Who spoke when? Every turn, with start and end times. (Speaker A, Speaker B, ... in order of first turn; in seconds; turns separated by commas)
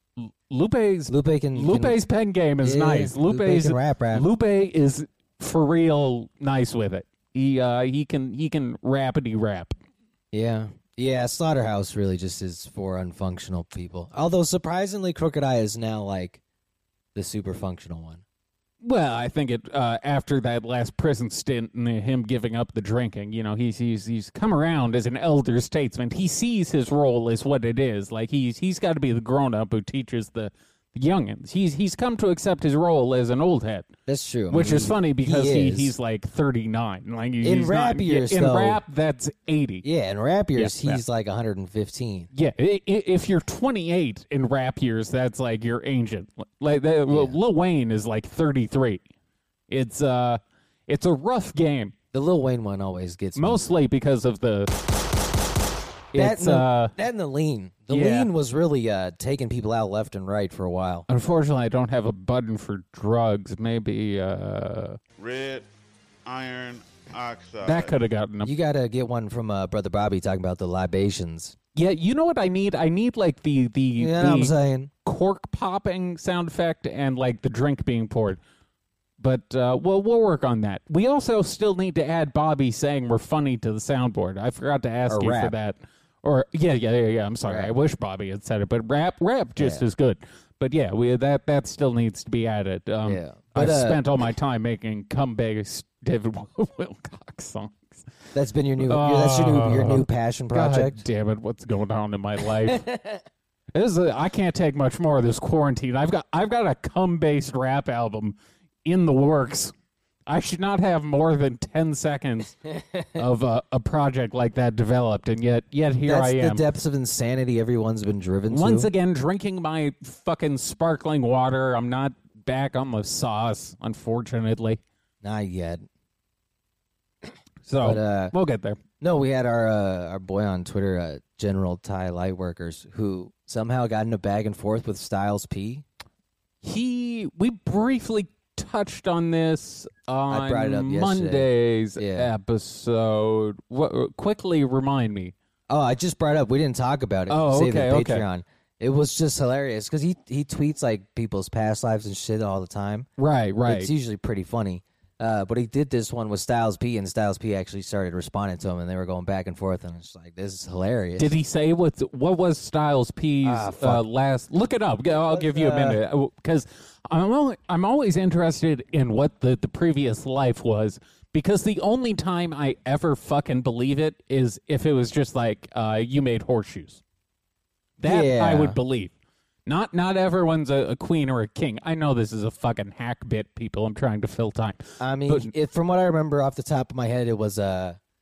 Speaker A: 0.2-9.7, Speaker B: 1.1-2.0, Speaker B: 2.6-4.3, Speaker B: 10.3-16.4, Speaker B: 17.1-18.2, Speaker A: 18.8-33.9, Speaker B: 34.0-35.9, Speaker A: 34.5-39.8, Speaker B: 37.4-38.8, Speaker B: 39.8-42.3, Speaker A: 40.5-41.0, Speaker A: 42.3-49.0, Speaker B: 47.1-47.4, Speaker A: 49.7-51.9, Speaker B: 52.1-53.6, Speaker A: 53.4-54.7, Speaker A: 56.1-56.9, Speaker B: 56.1-61.1, Speaker A: 57.9-58.3, Speaker A: 61.1-65.0, Speaker C: 65.2-65.7, Speaker C: 66.2-68.0, Speaker A: 67.6-68.5, Speaker B: 68.4-71.5, Speaker A: 71.7-74.5, Speaker B: 74.0-74.9, Speaker A: 75.0-78.4, Speaker A: 79.2-98.0, Speaker B: 85.1-85.5, Speaker B: 87.5-87.7, Speaker B: 89.6-89.8, Speaker B: 93.0-94.0, Speaker B: 98.3-101.0, Speaker A: 98.8-102.8, Speaker B: 102.7-103.2, Speaker A: 103.7-109.7, Speaker A: 110.3-112.6, Speaker A: 113.1-116.6, Speaker B: 116.0-118.9, Speaker A: 118.5-124.8, Speaker B: 125.2-125.8, Speaker A: 127.7-128.8, Speaker B: 127.8-128.3, Speaker B: 129.0-135.8, Speaker A: 136.6-145.3, Speaker B: 140.3-142.3, Speaker B: 145.7-153.1, Speaker A: 147.3-148.2, Speaker A: 153.2-153.9, Speaker B: 153.6-161.3, Speaker A: 161.2-177.0, Speaker B: 163.4-164.0, Speaker B: 165.3-166.0, Speaker A: 178.0-179.1, Speaker B: 178.0-178.8, Speaker A: 179.7-185.5, Speaker B: 185.0-188.0